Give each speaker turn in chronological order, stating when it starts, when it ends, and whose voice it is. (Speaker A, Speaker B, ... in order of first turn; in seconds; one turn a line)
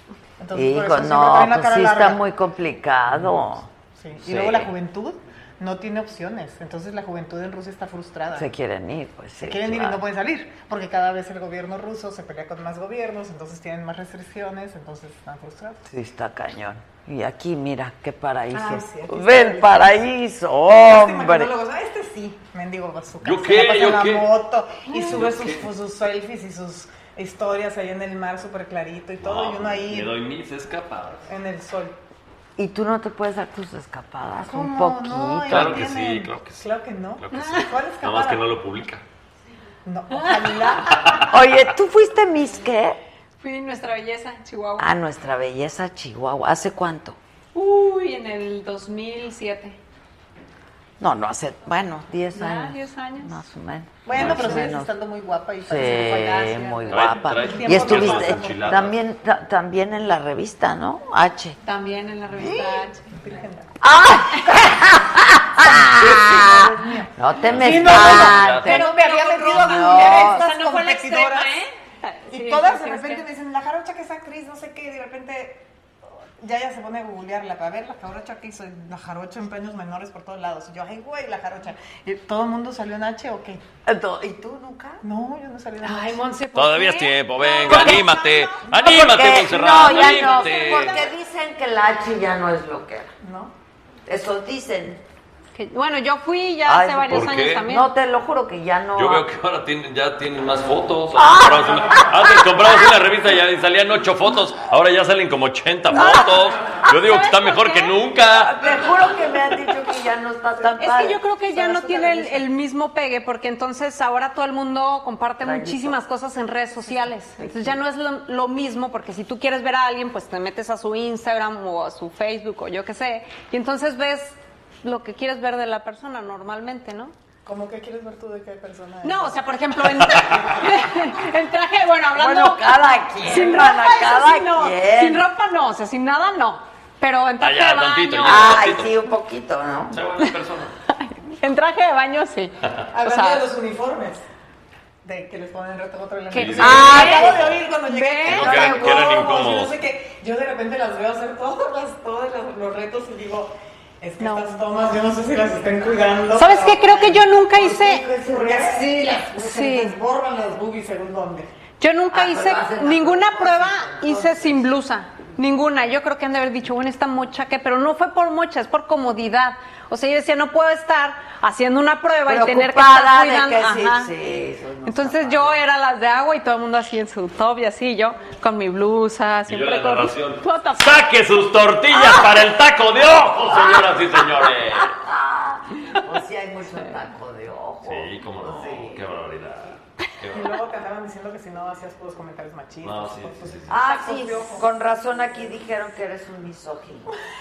Speaker A: 0.4-2.2
Speaker B: 0.5-3.7
Speaker A: 3.9-8.5
Speaker B: 4.2-4.7
Speaker B: 8.3-10.0
Speaker A: 9.4-15.8
Speaker B: 15.9-21.5
Speaker A: 18.5-20.0
Speaker A: 20.7-30.2
Speaker C: 23.2-24.4
Speaker C: 24.9-25.7
Speaker C: 29.2-31.3
Speaker A: 31.3-32.0
Speaker B: 32.6-35.8
Speaker A: 34.4-38.5
Speaker C: 35.5-39.0
Speaker D: 37.4-37.6
Speaker A: 39.9-41.3
Speaker D: 40.1-40.9
Speaker B: 41.1-43.0
Speaker D: 43.4-44.9
Speaker B: 44.8-47.2
Speaker D: 47.5-49.8
Speaker B: 51.0-54.9
Speaker D: 52.3-53.4
Speaker A: 54.0-58.7
Speaker C: 54.2-54.5
Speaker B: 55.7-61.6
Speaker C: 56.9-59.0
Speaker D: 61.6-63.1
Speaker A: 62.4-63.7
Speaker B: 63.8-68.8
Speaker A: 65.6-71.6
Speaker C: 67.4-68.8
Speaker D: 68.7-73.2
Speaker B: 69.5-70.4
Speaker A: 72.3-75.7
Speaker A: 76.4-83.6
Speaker B: 83.9-85.0
Speaker A: 85.0-86.2
Speaker D: 85.8-88.6
Speaker C: 86.5-91.1
Speaker B: 87.7-88.2
Speaker B: 88.7-93.1
Speaker A: 90.0-91.0
Speaker A: 93.2-93.5
Speaker B: 94.1-95.0
Speaker D: 95.5-97.9
Speaker B: 96.7-99.2
Speaker C: 97.1-97.7
Speaker C: 99.0-108.5
Speaker B: 101.2-102.6
Speaker B: 105.9-106.4
Speaker D: 106.0-106.2
Speaker D: 106.9-108.0
Speaker B: 108.3-111.4
Speaker D: 110.8-127.1
Speaker A: 111.8-112.2
Speaker B: 115.4-116.0
Speaker B: 117.4-117.8
Speaker A: 127.5-129.4
Speaker D: 129.0-138.6
Speaker C: 130.1-130.5
Speaker B: 132.2-135.3
Speaker C: 137.4-138.9
Speaker B: 138.2-140.0
Speaker C: 139.9-140.8
Speaker D: 140.9-143.5
Speaker A: 142.9-144.2
Speaker A: 145.0-161.5
Speaker D: 146.3-148.5
Speaker C: 146.3-147.6
Speaker B: 146.6-147.4
Speaker C: 148.3-149.8
Speaker B: 148.3-149.2
Speaker D: 154.2-154.7
Speaker D: 156.3-158.1
Speaker B: 157.8-158.9
Speaker D: 159.4-160.0
Speaker D: 161.8-174.1
Speaker B: 162.1-164.6
Speaker B: 172.3-175.6
Speaker D: 174.8-181.0
Speaker C: 179.5-185.0
Speaker B: 184.8-189.1
Speaker C: 187.8-190.6
Speaker A: 190.3-194.7
Speaker C: 192.8-193.8
Speaker B: 193.7-197.1
Speaker D: 193.9-194.5